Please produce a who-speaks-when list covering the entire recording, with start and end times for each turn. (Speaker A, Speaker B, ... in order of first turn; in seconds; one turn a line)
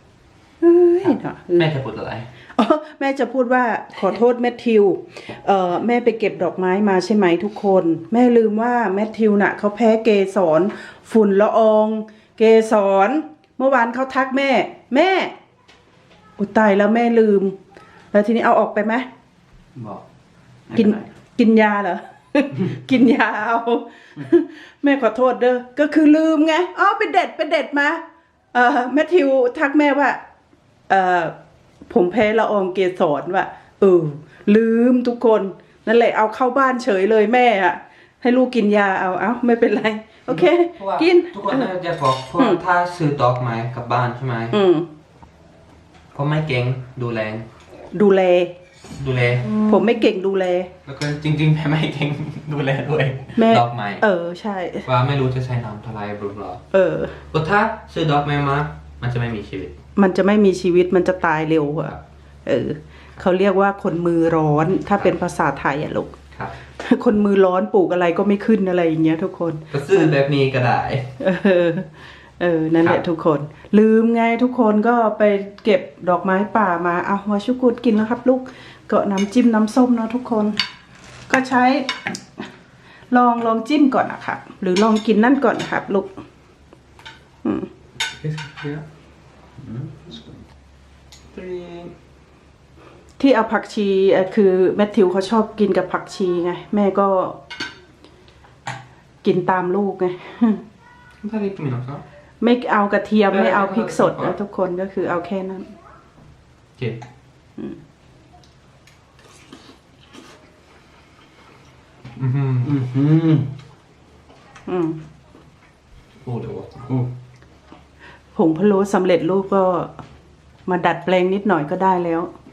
Speaker A: 0.6-1.7
Speaker B: 1.0-2.3
Speaker A: 2.5-15.3
Speaker A: 16.4-17.6
Speaker A: 18.1-19.1
Speaker C: 20.7-20.9
Speaker A: 20.8-30.2
Speaker A: 30.9-31.4
Speaker A: 31.9-41.7
Speaker B: 40.3-44.6
Speaker A: 44.5-44.9
Speaker B: 46.1-47.5
Speaker A: 47.9-48.6
Speaker B: 49.0-49.6
Speaker A: 49.5-50.7
Speaker B: 50.9-54.0
Speaker A: 53.4-54.9
Speaker B: 54.9-56.6
Speaker A: 56.7-57.2
Speaker B: 57.3-59.8
Speaker A: 60.0-62.0
Speaker A: 62.5-66.2
Speaker A: 66.8-70.1
Speaker B: 69.7-71.2
Speaker A: 71.2-71.9
Speaker A: 72.4-80.6
Speaker A: 81.3-82.4
Speaker A: 83.1-86.1
Speaker A: 87.4-87.7
Speaker B: 88.1-88.8
Speaker C: 89.6-90.4
Speaker B: 91.3-91.9
Speaker A: 93.2-97.4
Speaker A: 99.2-100.6
Speaker B: 101.2-102.0
Speaker A: 102.4-105.7
Speaker B: 103.3-104.3
Speaker B: 112.2-112.8
Speaker C: 112.6-113.5
Speaker A: 114.7-115.0
Speaker B: 116.2-116.9
Speaker A: 118.3-120.0
Speaker A: 120.7-122.3